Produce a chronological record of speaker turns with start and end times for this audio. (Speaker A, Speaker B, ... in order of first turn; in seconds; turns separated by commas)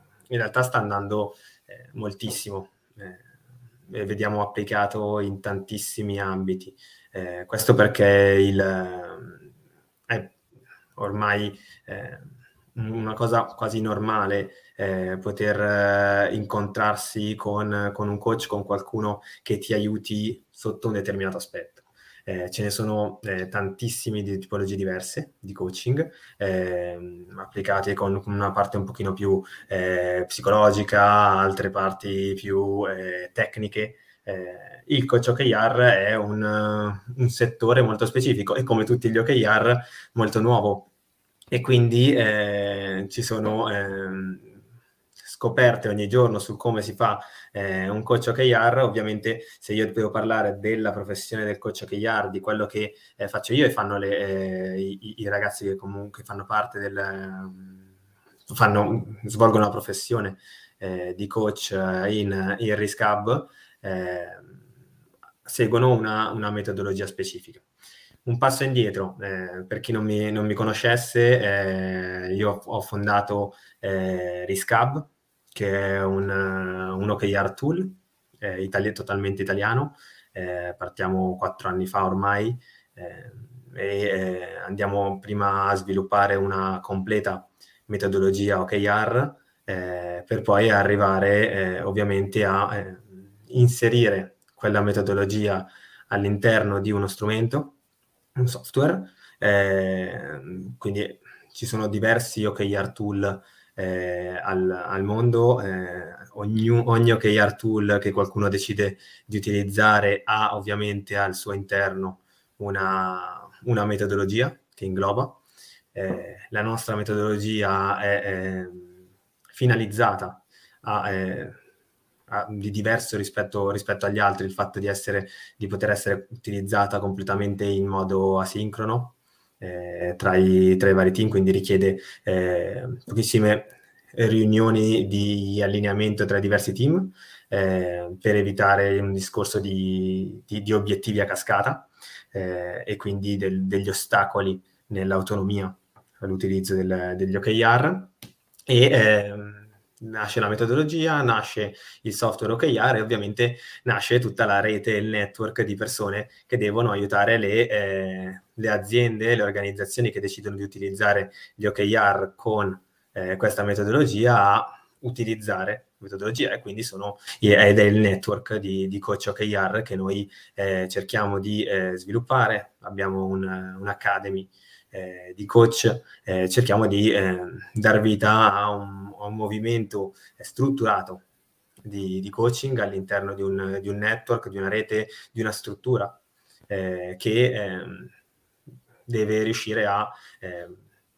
Speaker A: 0.3-3.2, Speaker A: 3.9-9.4, Speaker A: 10.1-10.3, Speaker A: 11.0-40.9, Speaker A: 41.5-44.6, Speaker A: 45.2-57.9, Speaker A: 58.5-64.6, Speaker A: 65.5-67.6, Speaker A: 68.2-97.8, Speaker A: 98.4-115.4, Speaker A: 115.9-119.0, Speaker A: 119.5-121.6, Speaker A: 122.3-148.1, Speaker A: 148.7-181.2, Speaker A: 181.8-186.2, Speaker A: 186.7-188.1, Speaker A: 189.1-190.8